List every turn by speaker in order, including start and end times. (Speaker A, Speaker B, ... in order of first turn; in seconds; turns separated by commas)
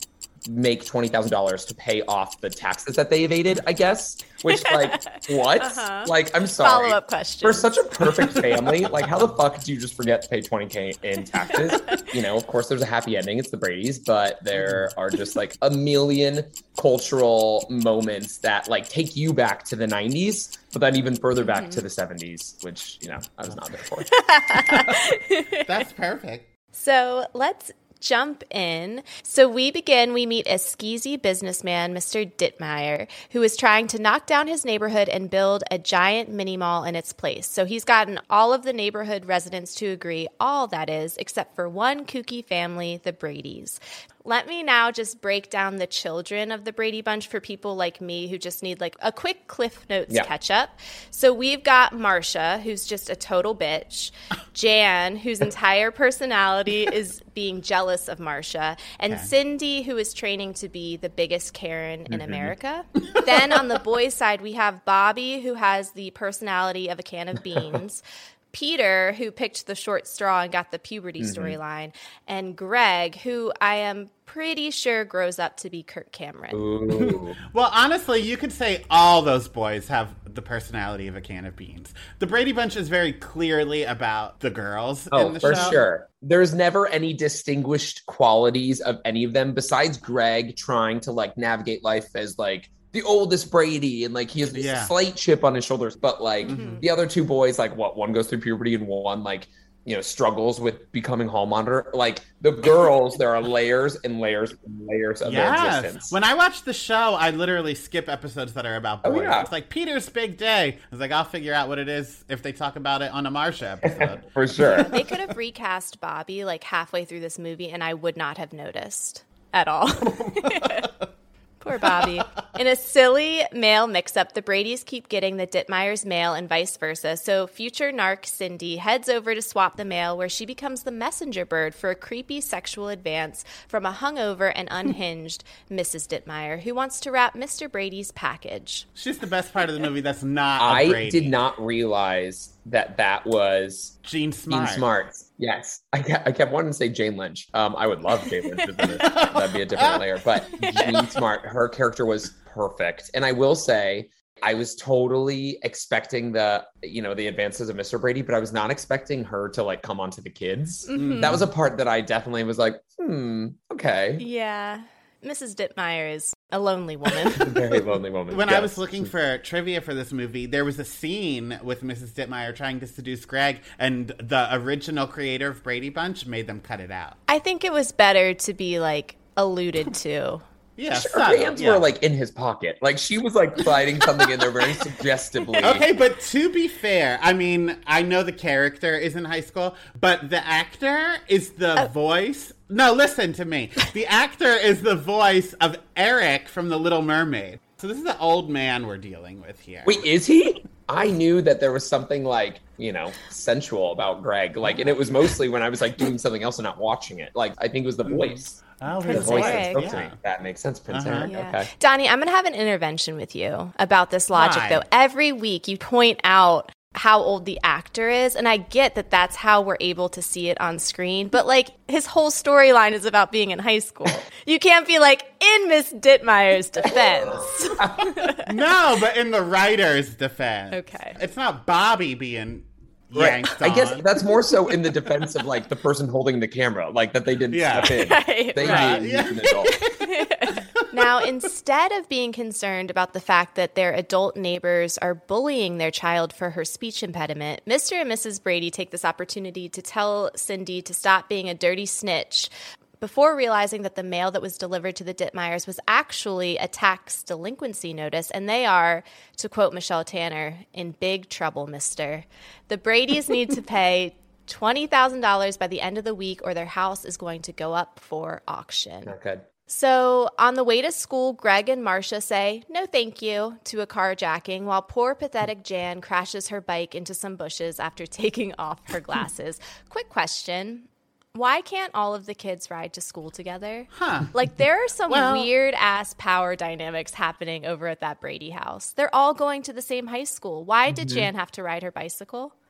Speaker A: 0.4-24.1, Speaker B: 4.5-8.6, Speaker B: 11.5-12.0, Speaker C: 14.6-14.9, Speaker B: 21.4-21.9, Speaker B: 24.1-25.7, Speaker C: 24.7-25.0, Speaker C: 25.6-26.5, Speaker B: 26.7-76.6, Speaker A: 62.1-62.5, Speaker A: 71.2-71.6, Speaker A: 76.5-77.4, Speaker C: 76.9-85.8, Speaker A: 85.1-106.2, Speaker B: 85.5-85.8, Speaker C: 94.5-94.9, Speaker C: 96.4-96.8, Speaker B: 96.4-96.8, Speaker C: 105.2-115.0, Speaker A: 109.0-109.5, Speaker A: 113.8-114.9, Speaker B: 114.6-120.9, Speaker C: 120.2-120.8, Speaker B: 121.6-138.9, Speaker C: 139.0-141.3, Speaker A: 140.6-143.9, Speaker C: 144.0-144.8, Speaker A: 144.5-164.2, Speaker B: 148.4-148.9, Speaker C: 148.9-150.0, Speaker C: 150.6-151.1, Speaker B: 150.6-150.9, Speaker B: 160.9-161.4, Speaker C: 160.9-161.5, Speaker B: 164.2-167.6, Speaker A: 167.4-169.1, Speaker C: 168.3-177.2, Speaker B: 177.3-180.4, Speaker C: 180.8-181.9, Speaker A: 180.9-185.8, Speaker C: 185.6-200.0, Speaker A: 199.8-211.7, Speaker C: 208.1-210.2, Speaker B: 209.0-209.9, Speaker C: 210.9-211.3, Speaker B: 211.3-228.5, Speaker C: 214.3-214.8, Speaker A: 226.9-228.1, Speaker C: 228.4-234.0, Speaker B: 230.7-231.2, Speaker A: 233.1-239.8, Speaker C: 237.5-238.0, Speaker B: 237.8-239.0, Speaker C: 238.6-239.9, Speaker B: 239.8-269.1, Speaker A: 269.1-269.4, Speaker B: 269.7-292.5, Speaker C: 283.9-284.3, Speaker C: 285.1-285.5, Speaker C: 290.9-291.3